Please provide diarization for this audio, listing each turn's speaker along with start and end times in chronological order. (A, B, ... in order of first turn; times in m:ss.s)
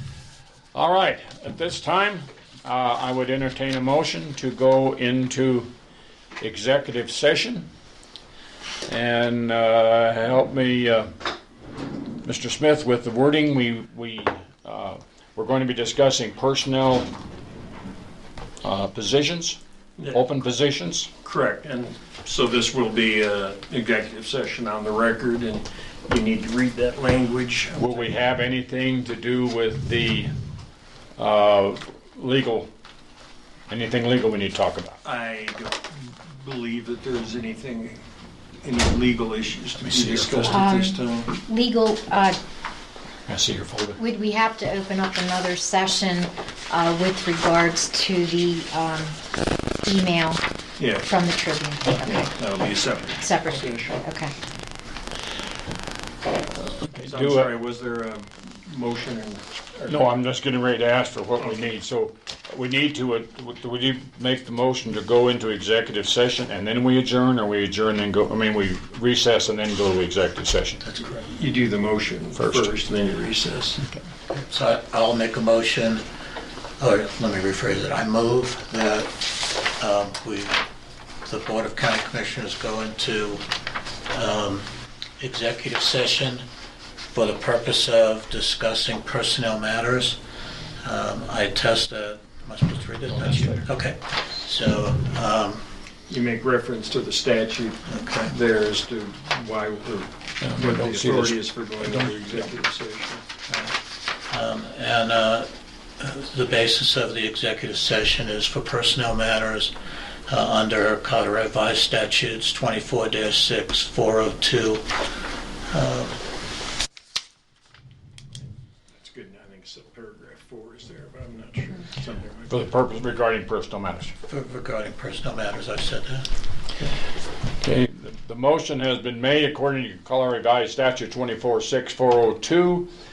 0:00.7-0:05.7 A
0:06.4-0:07.7 A
0:08.9-0:11.1 A
0:12.2-0:17.1 A
0:18.6-0:19.6 A
0:20.0-0:20.3 B
0:20.1-0:21.1 A
0:21.2-0:28.2 B
0:27.7-0:30.3 A
0:31.2-0:32.7 A
0:33.7-0:35.0 A
0:35.0-0:38.0 B
0:38.6-0:41.3 B
0:39.8-0:40.6 A
0:40.5-0:42.4 C
0:43.3-0:44.0 A
0:44.0-0:49.1 C
0:49.8-0:50.4 C
0:50.8-0:51.1 B
0:51.0-0:52.3 C
0:52.1-0:54.0 B
0:53.2-0:54.3 C
0:56.6-0:57.5 A
0:56.9-1:00.1 B
0:59.9-1:10.8 A
1:01.4-1:01.7 B
1:10.8-1:11.3 D
1:11.2-1:13.8 B
1:12.3-1:12.7 A
1:14.3-1:16.0 D
1:16.8-1:20.6 D
1:21.2-1:23.5 D
1:24.1-1:26.4 D
1:27.1-1:30.2 D
1:30.8-1:35.7 D
1:33.1-1:33.6 A
1:36.1-1:43.2 B
1:37.8-1:38.3 D
1:40.4-1:42.5 A
1:43.5-1:49.7 D
1:50.3-1:54.9 D
1:55.7-1:56.2 D
1:58.9-2:02.5 B
2:02.5-2:04.1 A
2:04.2-2:06.3 D
2:07.6-2:12.9 A